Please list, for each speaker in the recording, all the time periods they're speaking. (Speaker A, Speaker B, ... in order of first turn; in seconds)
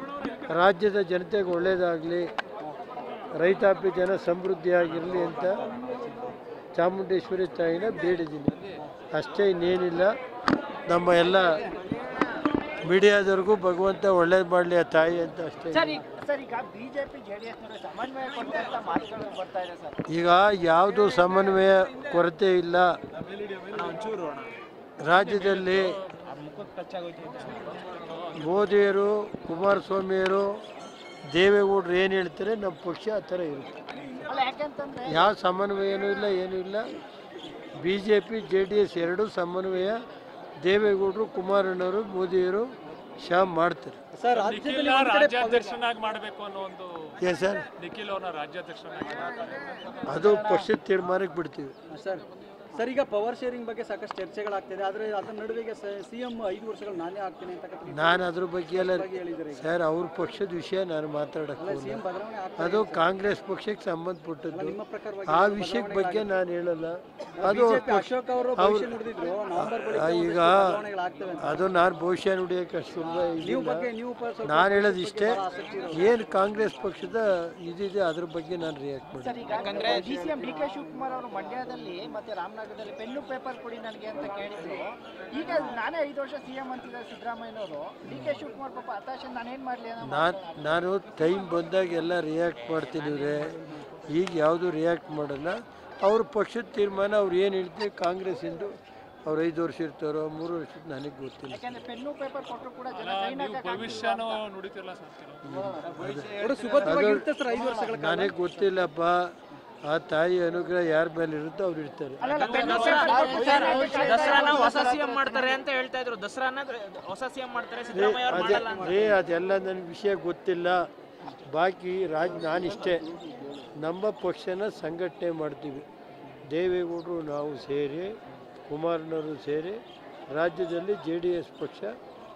Speaker A: 0.5-2.3, 3.4-5.6, 6.8-8.5, 9.1-10.1, 10.9-11.6, 12.8-16.0, 20.1-22.9, 25.0-26.0, 28.3-30.6, 31.3-33.8, 35.0-36.9, 37.8-40.0, 40.6-42.7, 43.2-44.0, 47.2-47.6, 50.0-51.7, 57.9-62.0, 62.6-68.9, 69.6-70.8, 71.4-73.9, 74.4-79.3, 88.1-88.3, 90.0-101.7, 105.4-106.3, 106.8-107.2, 107.8-112.3, 117.9-123.0, 123.8-125.8, 126.5-132.0
Speaker B: 15.7-20.0, 34.1-35.2, 79.2-90.8, 101.5-104.4, 105.7-105.9, 112.2-115.6
Speaker C: 23.7-24.6, 26.1-27.9, 79.5-80.3, 112.3-119.0
Speaker D: 25.2-26.0, 44.3-47.2, 47.8-50.0, 103.0-105.4, 106.0-106.9, 112.3-114.0
Speaker E: 44.1-45.8, 51.9-59.7, 61.6-63.0, 64.5-66.4, 67.4-71.7, 73.0-76.1, 106.4-108.4, 118.2-119.2